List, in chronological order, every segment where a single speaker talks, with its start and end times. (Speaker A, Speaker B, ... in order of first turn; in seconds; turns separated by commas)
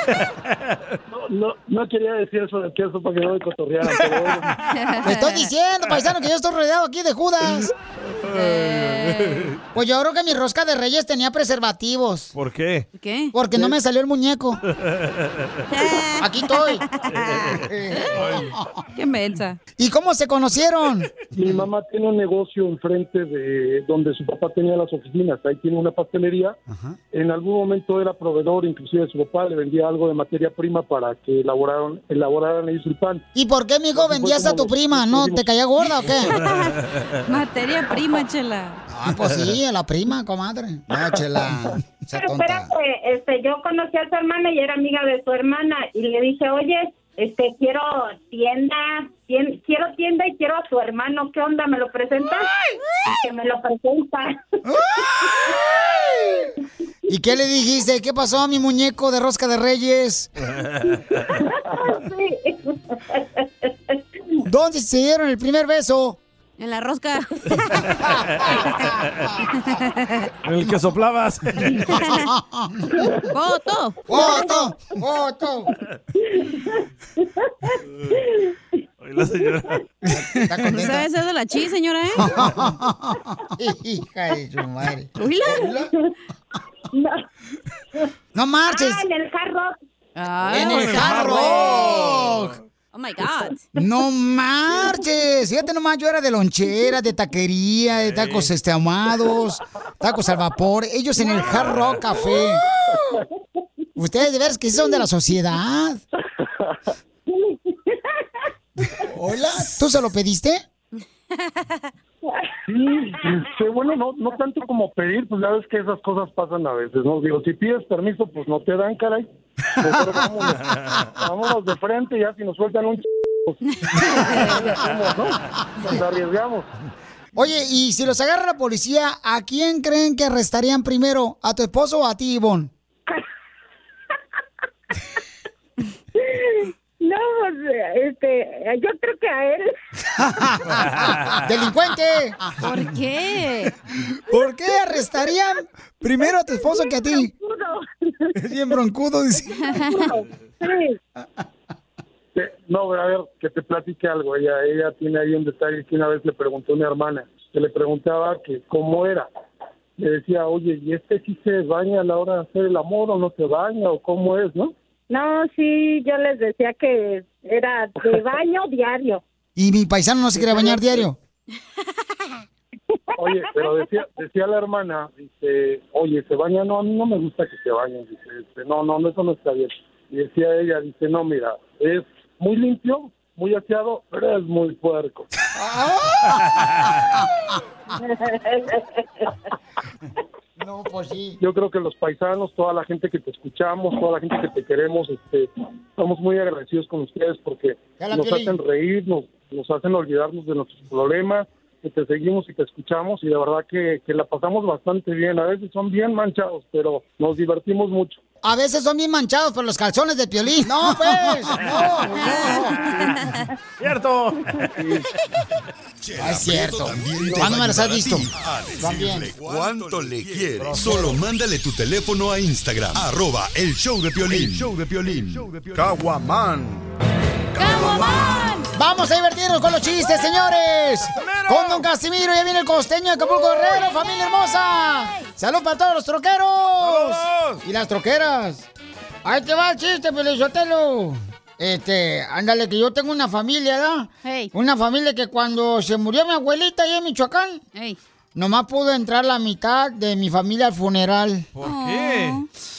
Speaker A: 0.1-0.9, Speaker B: 1.1-4.5, Speaker C: 4.7-5.4, Speaker D: 5.0-7.7, Speaker A: 7.5-9.6, Speaker C: 8.3-9.5, Speaker D: 9.7-12.3, Speaker A: 12.3-12.9, Speaker C: 13.0-13.3, Speaker D: 13.3-14.6, Speaker A: 14.8-15.6, Speaker C: 15.7-18.0, Speaker D: 16.2-16.8, Speaker A: 17.1-18.5, Speaker D: 17.5-18.8, Speaker C: 18.9-19.6, Speaker D: 19.8-21.1, Speaker B: 21.3-26.6, Speaker D: 26.7-27.0, Speaker B: 27.1-33.2, Speaker D: 33.3-36.4, Speaker B: 33.9-35.4, Speaker C: 36.3-38.8, Speaker D: 38.9-42.7, Speaker E: 42.1-52.5, Speaker E: 53.0-54.4, Speaker D: 54.6-56.5, Speaker E: 55.2-55.6, Speaker D: 57.1-60.3, Speaker A: 60.5-61.3, Speaker E: 61.3-64.0, Speaker D: 64.4-66.2, Speaker C: 66.6-67.9, Speaker A: 68.4-69.3, Speaker C: 69.5-70.3, Speaker A: 70.4-72.0, Speaker D: 71.9-73.1, Speaker C: 73.3-74.3, Speaker D: 74.1-75.7, Speaker E: 74.1-74.7, Speaker E: 76.2-78.5, Speaker A: 79.0-79.8, Speaker D: 80.0-81.0, Speaker C: 80.7-82.3, Speaker D: 82.2-85.9, Speaker C: 85.2-85.7, Speaker E: 85.6-85.8, Speaker E: 86.9-87.2, Speaker D: 88.3-89.0, Speaker E: 88.7-89.7, Speaker C: 90.2-92.2, Speaker D: 90.5-92.6, Speaker A: 90.5-92.6, Speaker C: 92.9-93.6, Speaker D: 93.8-102.6, Speaker A: 97.9-98.5, Speaker A: 101.5-102.0, Speaker D: 104.0-106.0, Speaker E: 107.3-108.0, Speaker D: 109.0-110.6, Speaker B: 112.7-119.3, Speaker B: 119.8-126.7, Speaker A: 120.6-121.0, Speaker C: 123.7-124.3, Speaker D: 127.3-132.7, Speaker E: 136.2-139.8, Speaker D: 140.2-142.4, Speaker A: 140.9-141.4, Speaker C: 142.6-143.7, Speaker D: 144.2-147.3, Speaker E: 146.2-148.3, Speaker D: 148.3-149.8, Speaker C: 149.6-150.1, Speaker E: 149.7-151.0, Speaker B: 152.3-159.3, Speaker B: 160.0-164.7, Speaker E: 165.1-169.2, Speaker D: 169.6-171.2, Speaker B: 170.4-171.1, Speaker E: 173.2-173.8, Speaker B: 173.2-185.3, Speaker D: 185.5-187.3, Speaker A: 186.6-186.9, Speaker E: 187.9-189.3, Speaker D: 190.6-191.4, Speaker B: 191.4-208.2, Speaker D: 198.0-198.5, Speaker D: 208.4-212.8, Speaker A: 211.0-212.0, Speaker C: 212.2-213.4, Speaker A: 213.8-214.5, Speaker B: 214.8-215.0, Speaker F: 216.0-226.8, Speaker D: 216.2-219.4, Speaker C: 227.6-228.7, Speaker D: 227.6-238.7, Speaker A: 231.0-231.9, Speaker C: 233.3-234.3, Speaker A: 236.8-237.6, Speaker D: 239.2-247.6, Speaker C: 244.2-244.5, Speaker D: 248.3-251.5, Speaker A: 251.5-252.4, Speaker C: 251.6-252.4